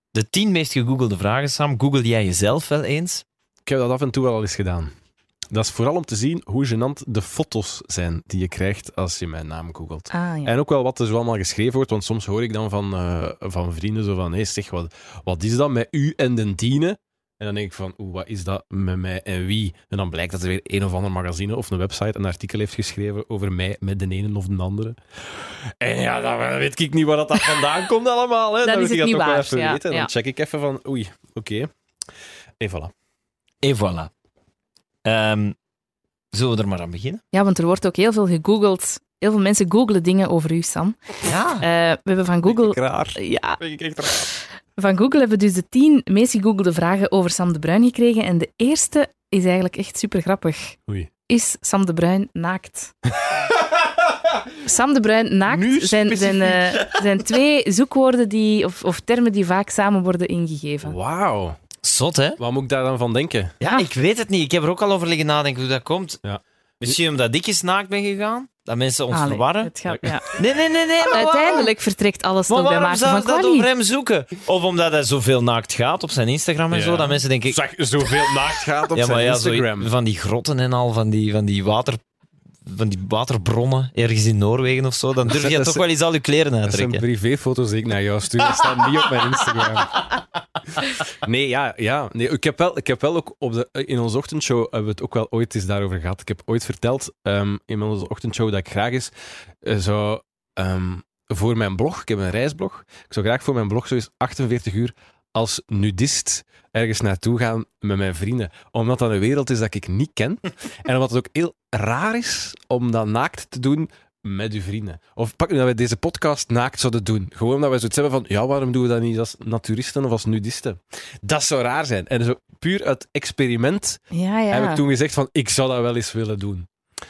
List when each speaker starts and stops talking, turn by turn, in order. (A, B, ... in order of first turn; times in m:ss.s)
0:00.1-0:03.2 A
0:03.7-0:04.9 B
0:05.5-0:31.7 B
0:10.1-0:10.5 C
0:28.6-0:30.1 C
0:32.6-0:32.9 B
0:33.6-0:34.1 A
0:35.0-0:35.6 A
0:36.3-0:37.2 A
0:37.3-0:50.8 C
0:41.2-0:41.6 A
0:42.4-0:44.3 B
0:51.3-0:52.9 C
0:54.6-1:00.9 C
0:55.5-0:56.9 B
1:00.8-1:01.6 B
1:01.8-1:02.4 A
1:02.4-1:03.5 B
1:03.6-1:06.2 A
1:06.2-1:07.0 B
1:06.8-1:09.7 A
1:09.1-1:10.3 C
1:09.9-1:10.3 B
1:10.2-1:11.7 A
1:11.1-1:13.7 C
1:12.5-1:22.0 A
1:16.7-1:19.9 B
1:22.6-1:27.0 A
1:25.2-1:25.9 B
1:26.7-1:30.0 B
1:31.1-2:06.7 B
2:04.1-2:04.8 C